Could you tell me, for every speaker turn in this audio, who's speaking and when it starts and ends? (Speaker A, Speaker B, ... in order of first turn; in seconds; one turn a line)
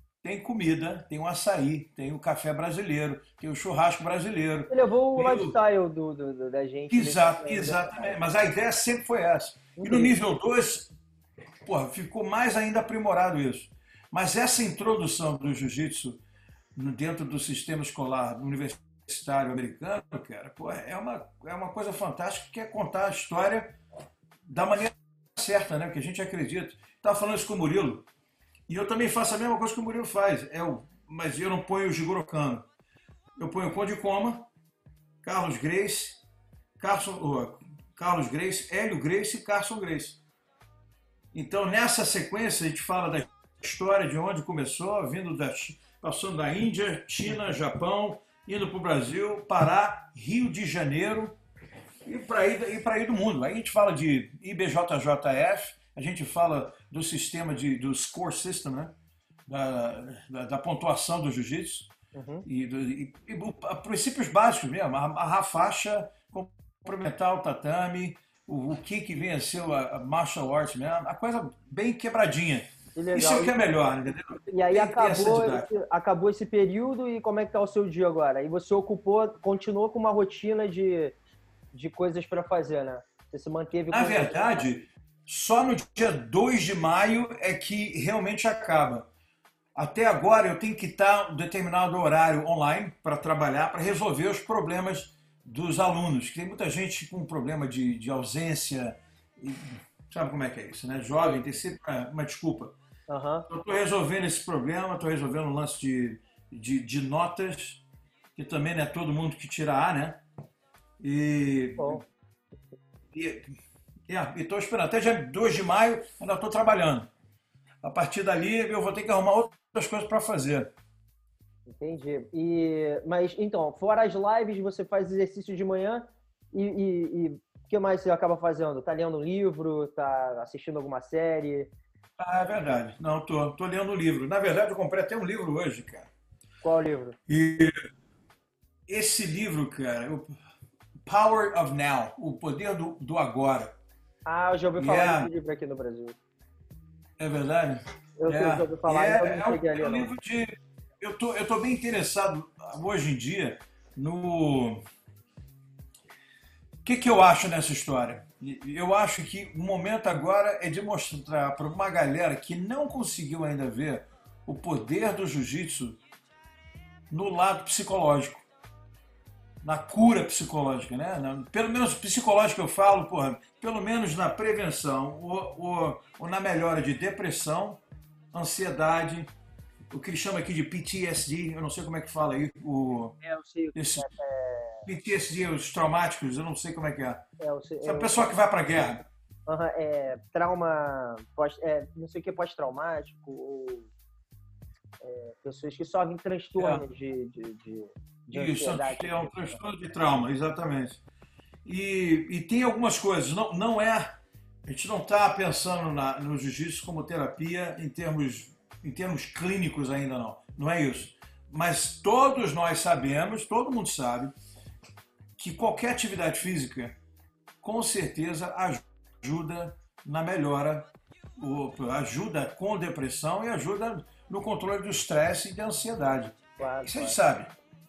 Speaker A: 0.2-5.5
Speaker B: 4.7-8.2
Speaker A: 6.9-10.9
Speaker B: 9.8-10.1
Speaker A: 11.7-16.2
Speaker A: 16.8-23.8
Speaker A: 24.5-28.1
Speaker A: 28.7-32.6
Speaker A: 33.4-34.5
Speaker A: 35.2-36.2
Speaker A: 36.8-40.2
Speaker A: 41.3-51.4
Speaker A: 52.0-58.9
Speaker A: 59.5-61.9
Speaker B: 62.1-62.4
Speaker A: 62.4-75.7
Speaker B: 72.9-73.5
Speaker B: 74.5-81.2
Speaker B: 81.7-84.6
Speaker A: 83.9-89.1
Speaker A: 89.7-102.7
Speaker B: 103.1-103.5
Speaker A: 103.5-107.8
Speaker A: 108.3-110.2
Speaker A: 111.0-112.0
Speaker B: 111.8-112.0
Speaker A: 113.1-113.5
Speaker A: 114.1-117.1
Speaker A: 117.8-120.7
Speaker B: 121.7-131.7
Speaker A: 132.2-136.1
Speaker B: 136.6-137.2
Speaker A: 137.3-137.8
Speaker A: 138.9-140.3
Speaker A: 141.1-143.7
Speaker B: 144.2-146.2
Speaker A: 144.8-145.3
Speaker A: 147.2-154.8
Speaker B: 148.2-150.1
Speaker A: 156.8-166.0
Speaker A: 167.1-168.4
Speaker A: 169.6-177.8
Speaker A: 178.3-179.3
Speaker A: 179.9-183.2
Speaker B: 183.2-184.8
Speaker A: 183.7-184.1
Speaker A: 184.8-187.2
Speaker B: 187.4-188.3
Speaker A: 187.8-189.0
Speaker B: 189.5-193.9
Speaker B: 195.0-199.6
Speaker A: 196.6-196.8
Speaker A: 198.3-201.0
Speaker A: 201.6-204.1
Speaker A: 204.7-214.3
Speaker A: 215.4-216.9
Speaker A: 217.6-227.5
Speaker B: 226.6-227.1